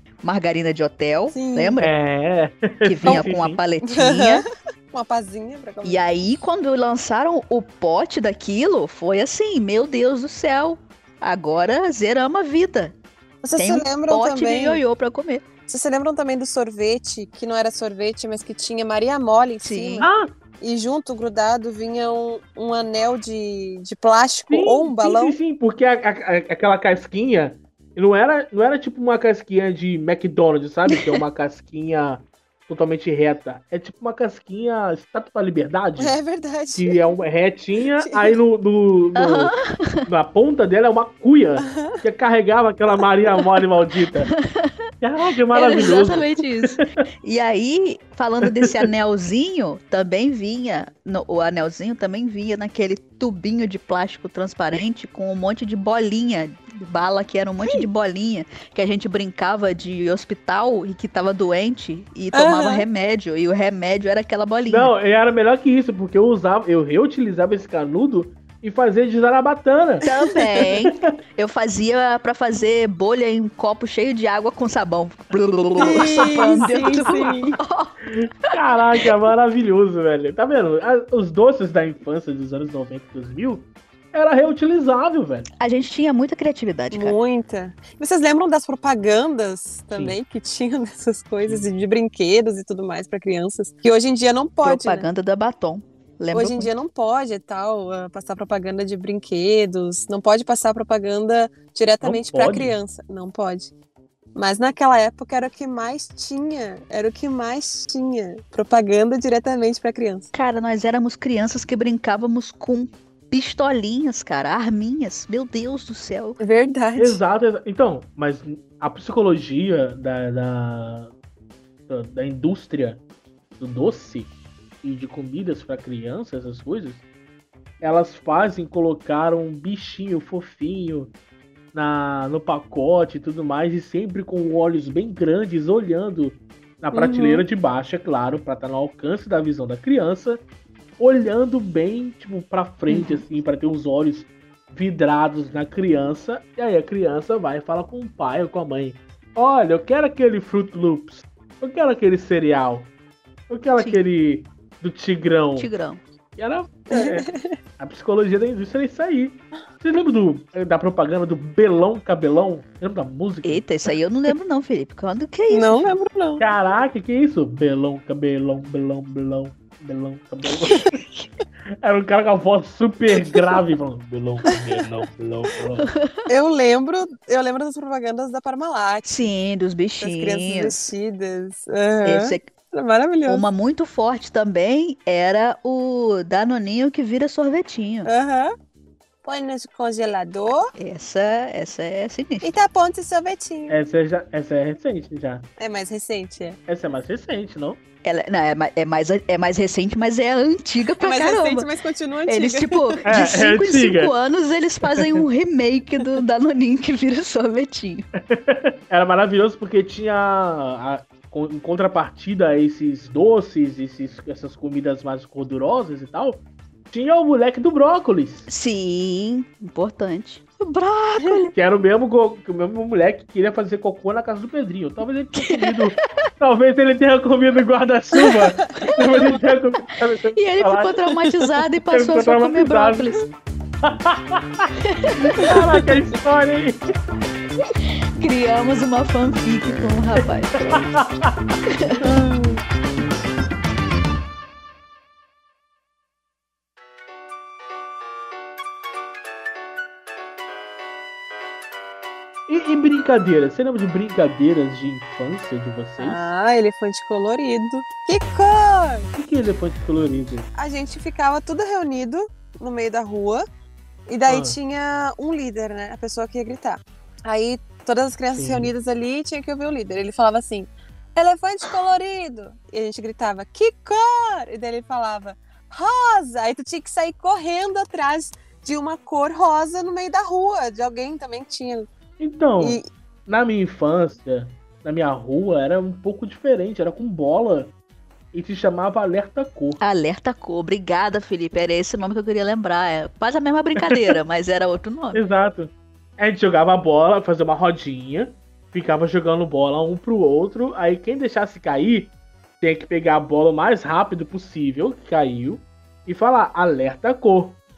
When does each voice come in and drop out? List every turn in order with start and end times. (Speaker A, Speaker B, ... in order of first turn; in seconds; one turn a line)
Speaker A: 0.2-1.9
Speaker B: 1.3-1.8
Speaker C: 1.8-3.6
Speaker A: 2.8-4.5
Speaker B: 3.9-6.1
Speaker A: 5.8-13.0
Speaker B: 13.4-14.8
Speaker A: 13.6-15.4
Speaker B: 15.7-25.4
Speaker A: 19.6-20.1
Speaker C: 20.0-20.3
Speaker C: 24.5-36.2
Speaker A: 30.9-31.2
Speaker B: 36.0-37.0
Speaker C: 36.8-39.5
Speaker B: 38.0-38.4
Speaker A: 39.2-40.1
Speaker C: 40.0-44.3
Speaker B: 41.7-42.0
Speaker A: 44.3-44.9
Speaker C: 45.0-46.9
Speaker A: 45.5-64.9
Speaker C: 48.5-48.8
Speaker B: 62.3-62.9
Speaker C: 64.7-70.0
Speaker A: 70.0-78.0
Speaker C: 70.6-71.1
Speaker C: 75.8-77.3
Speaker B: 75.8-77.6
Speaker C: 78.0-85.5
Speaker A: 85.6-87.2
Speaker B: 86.9-95.1
Speaker C: 89.9-90.2
Speaker A: 94.6-96.7
Speaker B: 96.3-103.7
Speaker C: 102.0-102.8
Speaker B: 104.3-110.3
Speaker A: 110.3-116.4
Speaker B: 116.4-117.2
Speaker C: 117.0-121.1
Speaker C: 121.9-123.0
Speaker C: 123.6-124.3
Speaker C: 124.8-127.0
Speaker C: 127.8-131.1
Speaker C: 131.7-140.4
Speaker B: 136.9-137.4
Speaker C: 141.0-152.9
Speaker A: 142.9-143.2
Speaker C: 153.5-155.7
Speaker A: 155.6-156.0
Speaker C: 156.4-157.3
Speaker B: 156.9-157.6
Speaker C: 157.8-163.7
Speaker A: 163.4-165.9
Speaker B: 165.5-166.4
Speaker C: 166.4-171.0
Speaker C: 171.8-175.9
Speaker A: 175.8-176.3
Speaker B: 176.3-179.3
Speaker A: 179.1-180.9
Speaker B: 180.0-183.4
Speaker A: 182.0-182.5
Speaker A: 183.3-188.1
Speaker B: 188.1-188.5
Speaker B: 189.2-190.7
Speaker A: 190.8-192.5
Speaker B: 192.4-193.8
Speaker C: 193.7-195.5
Speaker B: 195.6-196.6
Speaker C: 196.7-197.8
Speaker A: 198.0-201.7
Speaker B: 201.0-203.1
Speaker A: 202.3-208.1
Speaker C: 203.1-204.1
Speaker C: 204.9-205.2
Speaker C: 208.3-218.5
Speaker A: 218.5-221.5
Speaker C: 221.6-231.4
Speaker A: 225.4-225.9
Speaker A: 228.2-228.5
Speaker A: 229.0-229.3
Speaker A: 230.3-233.2
Speaker C: 231.9-233.1
Speaker C: 233.8-234.7
Speaker A: 234.8-235.6
Speaker C: 235.4-236.8
Speaker A: 238.2-240.9
Speaker C: 240.6-241.3
Speaker A: 241.7-241.9
Speaker B: 242.0-242.6
Speaker C: 252.5-256.3
Speaker B: 256.0-259.1
Speaker C: 259.1-260.5
Speaker B: 260.6-263.4
Speaker B: 264.1-281.9
Speaker C: 264.3-264.6
Speaker C: 268.4-268.7
Speaker C: 282.2-287.7
Speaker C: 288.3-289.8
Speaker A: 289.8-295.2
Speaker C: 293.8-294.1
Speaker C: 295.1-307.6